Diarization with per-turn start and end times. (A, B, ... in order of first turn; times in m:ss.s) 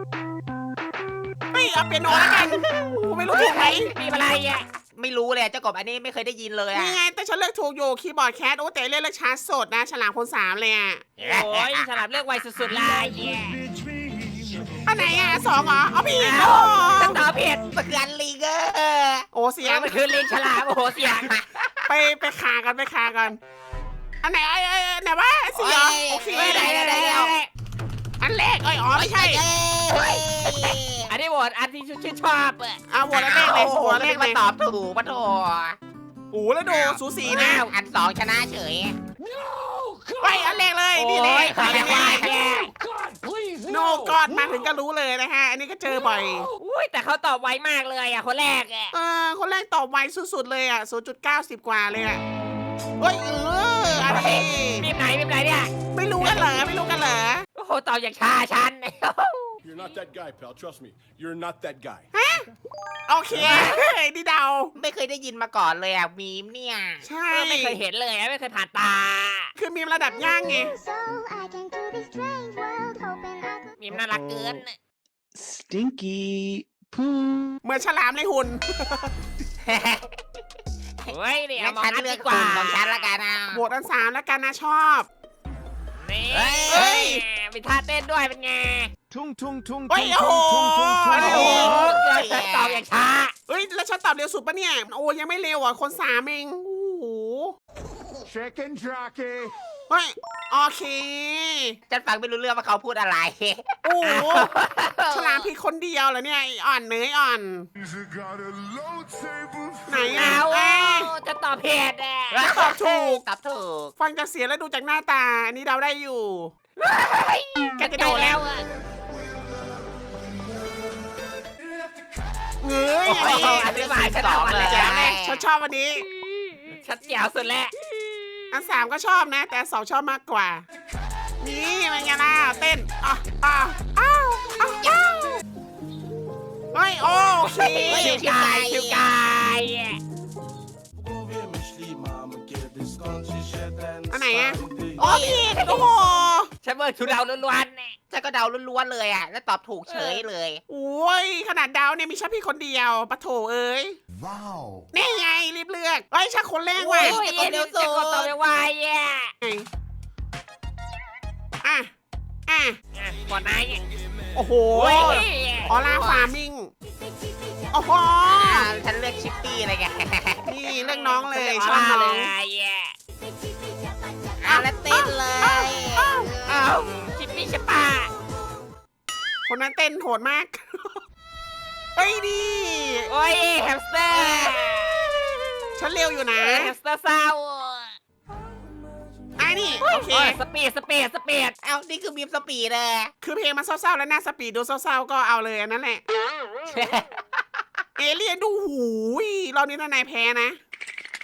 0:01.5-0:03.9 A
0:02.1-0:02.4 B
0:03.3-0:04.6 B
0:04.9-0:07.0 C
0:06.7-0:11.0 A
0:11.2-0:11.9 C
0:11.2-0:13.6 B
0:12.8-0:14.8 D
0:14.8-0:17.2 A
0:16.2-0:17.6 B
0:17.7-0:19.3 C
0:19.3-0:19.9 A
0:19.6-0:21.3 B
0:21.2-0:21.8 C
0:21.9-0:23.4 A
0:24.2-0:26.8 A
0:25.5-0:27.3 C
0:26.3-0:27.5 B
0:28.2-0:29.4 A
0:28.9-0:31.1 C
0:29.9-0:32.8 B
0:32.9-0:34.4 A
0:33.1-0:35.8 C
0:36.3-0:37.7 A
0:36.7-0:39.0 C
0:37.3-0:37.7 B
0:39.3-0:40.4 D
0:40.2-0:42.3 A
0:40.9-0:42.7 B
0:41.4-0:42.3 C
0:42.7-0:44.1 D
0:43.6-0:46.5 A
0:46.6-0:48.9 B
0:48.9-0:52.2 A
0:53.0-0:54.9 A
0:54.0-0:55.7 B
0:55.9-0:57.4 A
0:57.6-0:59.5 B
0:59.6-1:02.0 E
1:02.1-1:02.4 A
1:03.1-1:04.7 A
1:03.5-1:03.8 C
1:03.5-1:03.8 B
1:04.8-1:07.0 C
1:07.0-1:07.8 A
1:07.3-1:09.5 B
1:09.6-1:10.7 A
1:10.4-1:13.7 F
1:13.8-1:14.8 B
1:15.6-1:17.4 D
1:17.6-1:18.9 A
1:19.6-1:20.2 C
1:21.0-1:23.6 C
1:21.1-1:23.1 B
1:23.5-1:25.1 A
1:26.0-1:28.9 B
1:26.3-1:27.0 C
1:26.7-1:27.2 A
1:29.1-1:31.9 D
1:29.9-1:31.8 A
1:31.1-1:32.8 C
1:31.1-1:33.3 B
1:33.5-1:37.5 A
1:38.2-1:39.5 D
1:39.9-1:41.8 A
1:41.9-1:44.2 C
1:43.8-1:44.5 A
1:44.0-1:45.4 B
1:45.1-1:47.7 A
1:49.9-1:51.1 A
1:50.1-1:52.4 B
1:52.3-1:53.9 C
1:52.4-1:53.2 A
1:54.0-1:56.5 A
1:56.8-1:58.6 B
1:57.8-1:58.4 A
2:02.6-2:06.0 A
2:03.0-2:05.1 B
2:03.1-2:05.4 C
2:06.0-2:08.4 B
2:08.5-2:10.6 A
2:11.4-2:15.0 A
2:14.8-2:15.4 C
2:16.7-2:18.3 A
2:17.4-2:20.0 B
2:17.9-2:19.0 C
2:20.9-2:25.1 E
2:24.1-2:26.5 A
2:25.0-2:25.5 C
2:25.1-2:25.9 B
2:26.6-2:28.0 B
2:28.1-2:30.6 C
2:29.9-2:30.2 B
2:30.7-2:34.0 A
2:34.9-2:37.2 A
2:36.8-2:38.3 C
2:36.9-2:39.3 B
2:39.4-2:39.7 A
2:41.6-2:41.9 A
2:42.5-2:42.8 A
2:42.9-2:43.8 B
2:44.3-2:46.7 A
2:44.7-2:45.8 B
2:45.9-2:46.3 C
2:47.7-2:48.7 A
2:48.2-2:50.5 C
2:50.4-2:52.3 A
2:50.7-2:52.9 B
2:54.4-2:56.7 C
2:54.5-2:56.3 A
2:56.4-2:58.1 B
2:59.5-3:01.0 A
3:02.0-3:03.1 A
3:03.1-3:05.4 B
3:04.1-3:04.5 C
3:05.8-3:06.7 A
3:06.4-3:08.0 B
3:09.4-3:10.4 A
3:09.8-3:11.5 B
3:11.6-3:13.1 C
3:13.2-3:16.0 A
3:16.7-3:17.1 C
3:18.0-3:20.6 A